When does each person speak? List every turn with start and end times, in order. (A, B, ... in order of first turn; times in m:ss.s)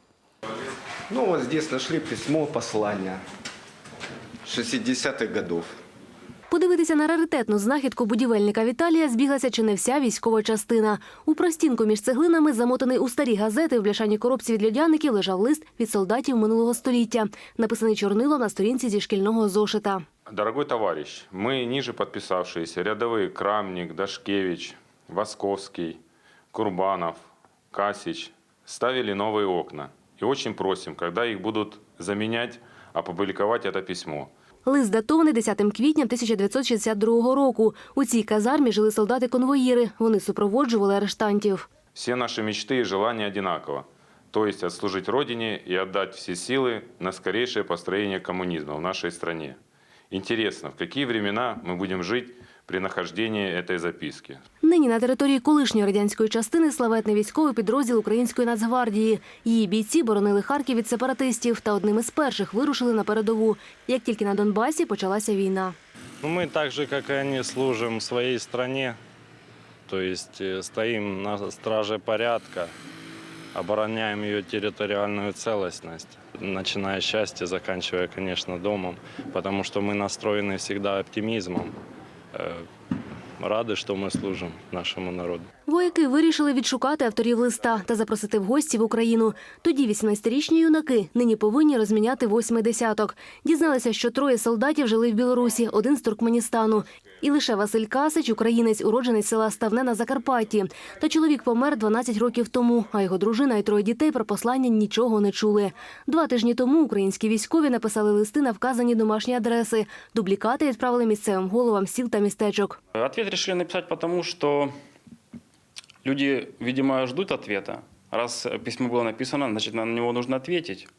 0:01.1-0:03.2 A
0:04.4-0:05.7 A
0:06.5-0:20.0 B
0:20.3-0:26.0 C
0:26.5-0:34.3 C
0:34.6-0:41.7 B
0:41.9-0:49.6 C
0:50.1-0:54.4 C
0:54.6-1:05.8 B
1:06.2-1:09.0 D
1:09.9-1:12.7 D
1:13.5-1:21.7 D
1:22.3-1:22.6 D
1:23.4-1:25.5 D
1:25.7-1:52.8 B
1:52.9-1:54.7 E
1:56.0-2:00.9 E